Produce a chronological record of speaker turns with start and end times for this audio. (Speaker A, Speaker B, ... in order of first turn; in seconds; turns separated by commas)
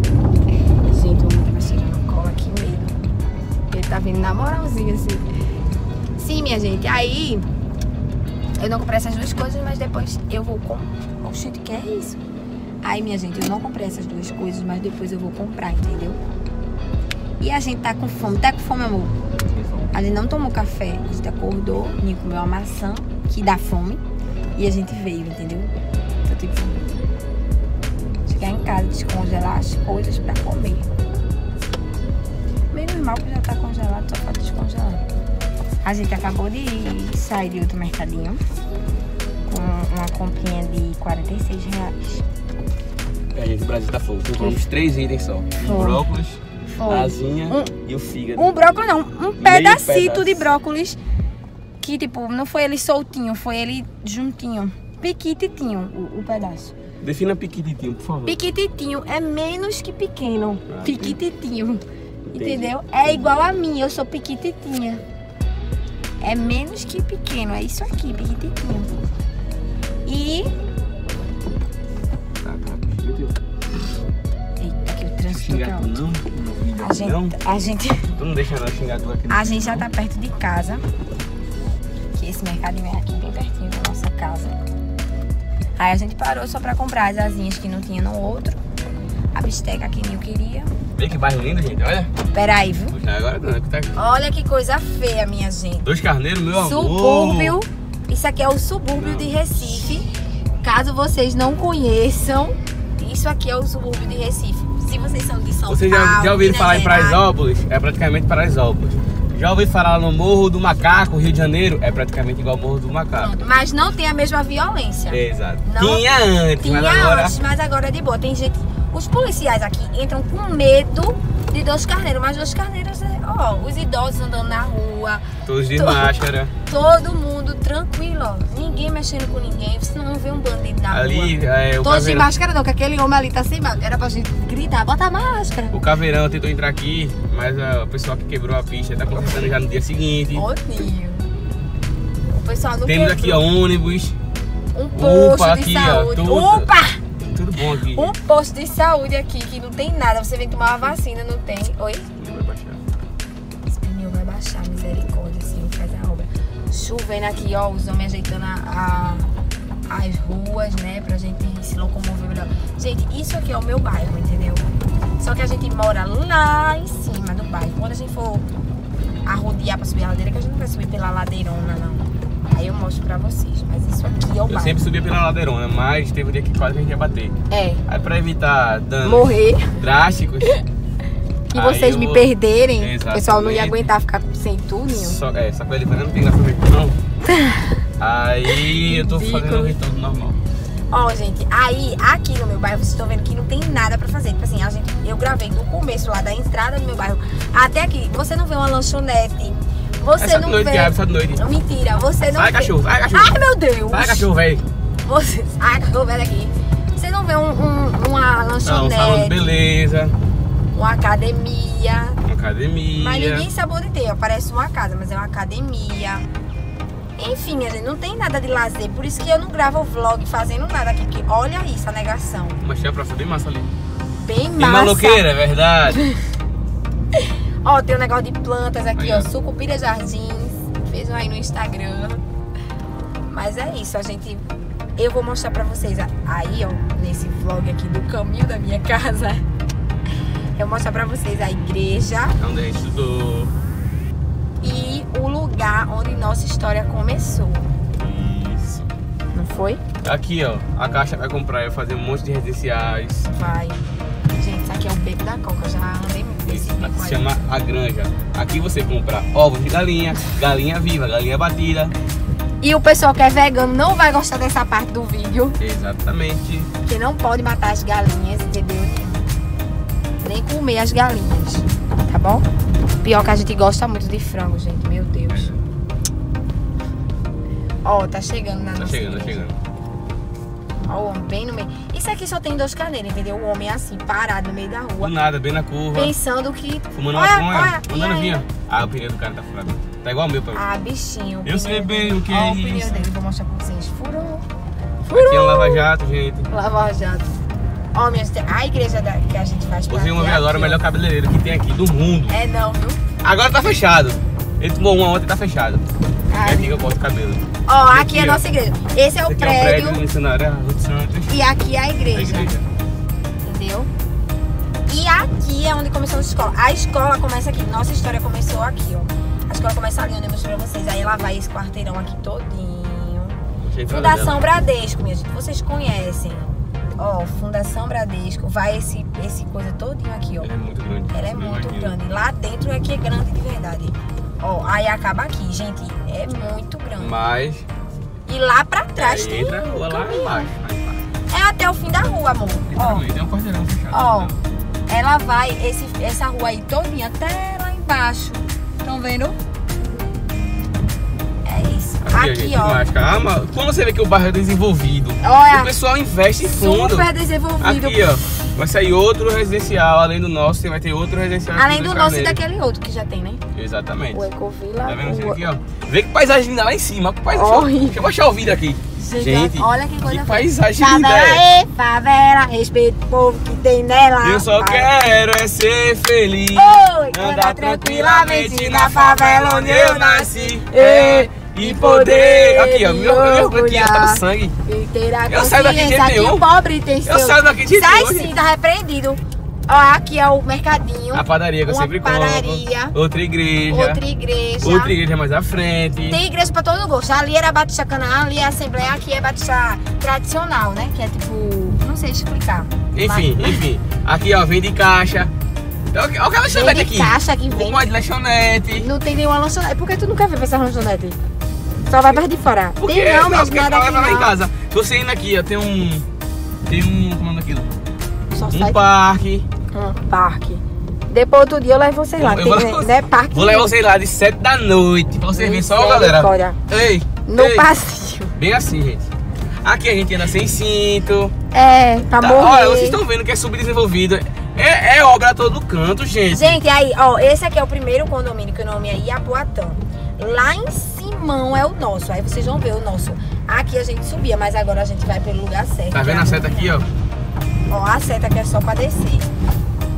Speaker A: 0.8-3.1, Speaker A: 3.7-5.2, Speaker A: 6.2-7.4, Speaker A: 8.6-12.2, Speaker A: 12.8-16.2, Speaker A: 17.4-19.1, Speaker B: 19.5-19.9, Speaker A: 19.9-24.0, Speaker A: 24.5-25.7, Speaker A: 26.2-26.7, Speaker A: 28.2-30.9, Speaker A: 32.7-35.0, Speaker A: 35.8-38.4, Speaker A: 39.5-42.2, Speaker B: 43.3-48.6, Speaker A: 45.6-46.0, Speaker A: 46.8-47.7, Speaker A: 48.4-51.0, Speaker B: 49.4-50.5, Speaker A: 51.8-56.7, Speaker B: 57.0-58.4, Speaker A: 58.2-65.0, Speaker B: 60.7-61.2, Speaker B: 62.3-63.3, Speaker A: 66.2-68.9, Speaker A: 70.0-70.5, Speaker B: 72.4-73.3, Speaker A: 74.6-76.0, Speaker B: 75.3-77.4, Speaker A: 76.8-78.1, Speaker B: 78.2-79.9, Speaker A: 79.3-80.8, Speaker A: 82.1-84.6, Speaker A: 85.8-88.6, Speaker A: 89.3-90.7, Speaker B: 91.0-92.1, Speaker A: 92.3-92.9, Speaker B: 92.9-93.9, Speaker A: 93.9-95.9, Speaker B: 95.8-97.6, Speaker A: 96.5-100.1, Speaker B: 98.9-99.3, Speaker A: 100.6-107.2, Speaker B: 105.7-113.4, Speaker A: 113.2-116.0, Speaker B: 115.1-117.3, Speaker A: 116.6-126.1, Speaker B: 125.5-126.5, Speaker A: 126.7-135.8, Speaker B: 130.9-132.3, Speaker B: 135.7-140.4, Speaker A: 140.3-141.3, Speaker A: 142.3-143.4, Speaker B: 142.8-144.1, Speaker A: 144.7-147.0, Speaker B: 144.9-146.7, Speaker B: 147.3-148.1, Speaker A: 147.9-152.1, Speaker B: 152.2-152.8, Speaker A: 153.7-159.3, Speaker A: 159.9-168.4, Speaker A: 169.2-174.8, Speaker B: 174.5-177.3, Speaker A: 177.5-177.8, Speaker B: 177.9-180.6, Speaker A: 179.0-179.8, Speaker A: 181.5-185.2, Speaker B: 181.5-183.9, Speaker B: 184.9-187.0, Speaker A: 187.3-187.6, Speaker B: 188.0-190.4, Speaker A: 188.5-189.8, Speaker A: 190.9-204.3, Speaker B: 200.2-201.4, Speaker B: 202.3-203.4, Speaker B: 203.9-204.6, Speaker A: 205.1-209.5, Speaker B: 208.6-210.1, Speaker A: 210.7-212.2, Speaker B: 212.3-213.4, Speaker A: 212.9-216.2, Speaker A: 217.2-222.6, Speaker B: 222.6-223.7, Speaker A: 224.2-225.2, Speaker B: 224.6-226.0, Speaker A: 227.6-232.2, Speaker B: 228.9-229.3, Speaker A: 233.3-239.4, Speaker A: 240.6-242.4, Speaker B: 242.4-243.5, Speaker A: 244.6-247.7, Speaker B: 248.0-248.9, Speaker A: 249.3-249.8, Speaker B: 250.0-253.3, Speaker A: 253.3-253.8, Speaker A: 254.3-257.2, Speaker B: 256.5-261.9, Speaker A: 262.6-265.6, Speaker B: 265.6-266.7, Speaker A: 266.8-269.2, Speaker A: 270.2-272.5, Speaker A: 273.0-275.5, Speaker B: 275.3-275.6, Speaker A: 277.8-279.5, Speaker B: 278.8-279.6, Speaker A: 280.8-285.1, Speaker B: 285.0-286.1, Speaker A: 285.9-288.4, Speaker B: 286.9-290.6, Speaker A: 290.5-294.4, Speaker B: 291.4-293.1, Speaker A: 295.1-295.9, Speaker B: 295.1-296.5, Speaker A: 296.5-297.4, Speaker A: 297.9-300.8, Speaker B: 299.9-302.4, Speaker A: 302.3-303.0, Speaker B: 303.2-305.8, Speaker A: 306.3-306.8, Speaker B: 306.4-308.4, Speaker A: 307.7-310.0, Speaker B: 309.2-311.4, Speaker A: 311.3-312.5, Speaker B: 312.1-312.6, Speaker A: 313.4-313.9, Speaker A: 314.9-330.5, Speaker B: 323.6-324.4, Speaker B: 330.4-331.9, Speaker A: 331.1-337.1, Speaker B: 337.0-337.6, Speaker A: 338.3-340.5, Speaker B: 339.0-341.0, Speaker A: 341.3-343.1, Speaker B: 342.7-344.4, Speaker A: 343.9-344.3, Speaker A: 344.9-349.4, Speaker A: 351.4-352.8, Speaker B: 352.0-357.1, Speaker A: 355.2-355.7, Speaker A: 356.4-358.0, Speaker B: 357.6-362.4, Speaker A: 361.6-363.4, Speaker B: 363.5-364.3, Speaker A: 364.1-365.4, Speaker B: 364.9-371.4, Speaker A: 367.3-368.1, Speaker A: 369.0-374.9, Speaker B: 374.2-384.5, Speaker A: 376.5-392.9, Speaker B: 385.3-386.4, Speaker B: 387.1-388.3, Speaker B: 391.1-394.0, Speaker A: 393.7-394.9, Speaker B: 394.6-396.2, Speaker A: 396.1-403.6, Speaker B: 402.9-405.3, Speaker B: 405.9-408.9, Speaker A: 406.5-407.9, Speaker A: 408.8-411.2, Speaker A: 411.9-414.3, Speaker B: 412.8-416.1, Speaker B: 416.7-417.7, Speaker A: 418.3-418.8, Speaker B: 418.5-419.5, Speaker A: 419.7-423.7, Speaker B: 422.2-427.6, Speaker A: 425.3-426.6, Speaker A: 427.3-428.3, Speaker B: 428.4-429.1, Speaker B: 429.6-431.3, Speaker A: 431.5-433.0, Speaker B: 432.2-436.6, Speaker A: 436.3-446.8, Speaker B: 445.9-446.9, Speaker A: 447.7-449.3